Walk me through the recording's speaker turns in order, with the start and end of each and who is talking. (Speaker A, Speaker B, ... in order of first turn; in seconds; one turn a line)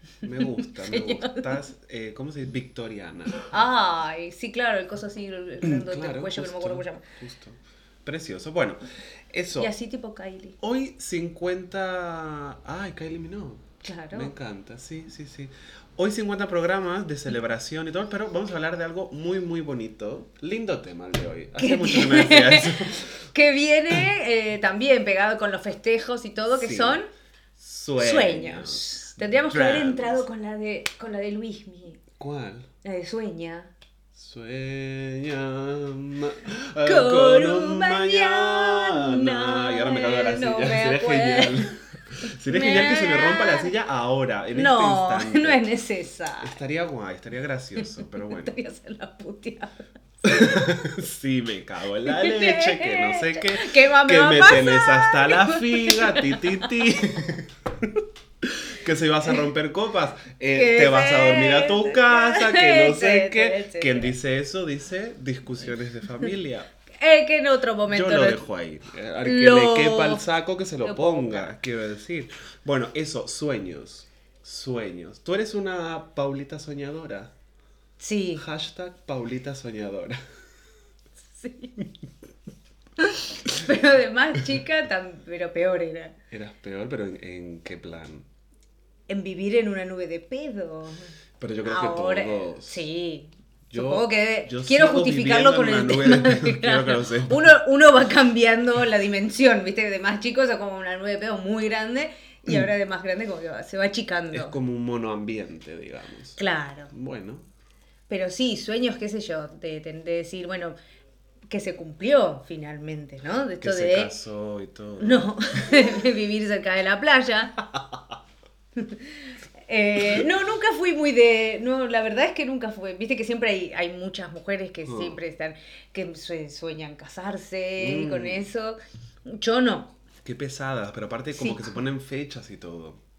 Speaker A: 0.2-3.5
Speaker B: 0.4-1.6
Speaker B: 3.5-7.0
Speaker A: 5.6-9.7
Speaker B: 9.6-10.6
Speaker A: 10.6-23.1
Speaker B: 13.8-14.3
Speaker B: 21.6-27.1
Speaker A: 26.5-27.0
Speaker A: 27.6-30.2
Speaker B: 28.0-32.0
Speaker A: 32.2-32.7
Speaker B: 32.8-33.7
Speaker A: 34.1-45.6
Speaker B: 36.8-41.8
Speaker B: 42.5-43.7
Speaker B: 44.5-46.6
Speaker A: 46.4-48.5
Speaker B: 47.8-50.8
Speaker A: 50.2-66.7
Speaker B: 52.0-56.7
Speaker B: 60.5-64.1
Speaker B: 67.0-68.4
Speaker A: 67.9-77.3
Speaker B: 69.2-70.2
Speaker B: 70.8-71.5
Speaker B: 78.0-78.4
Speaker A: 78.4-80.2
Speaker B: 81.4-81.7
Speaker B: 83.0-86.1
Speaker A: 86.3-88.2
Speaker B: 89.1-91.1
Speaker A: 91.4-92.8
Speaker B: 91.6-104.6
Speaker A: 93.7-97.5
Speaker A: 104.3-106.4
Speaker B: 106.4-106.9
Speaker A: 106.9-107.5
Speaker B: 108.1-110.8
Speaker B: 111.5-114.1
Speaker A: 113.6-116.0
Speaker B: 115.0-117.6
Speaker B: 118.8-119.1
Speaker B: 119.7-129.9
Speaker A: 124.9-125.2
Speaker A: 127.8-128.5
Speaker A: 130.2-133.0
Speaker B: 131.3-131.7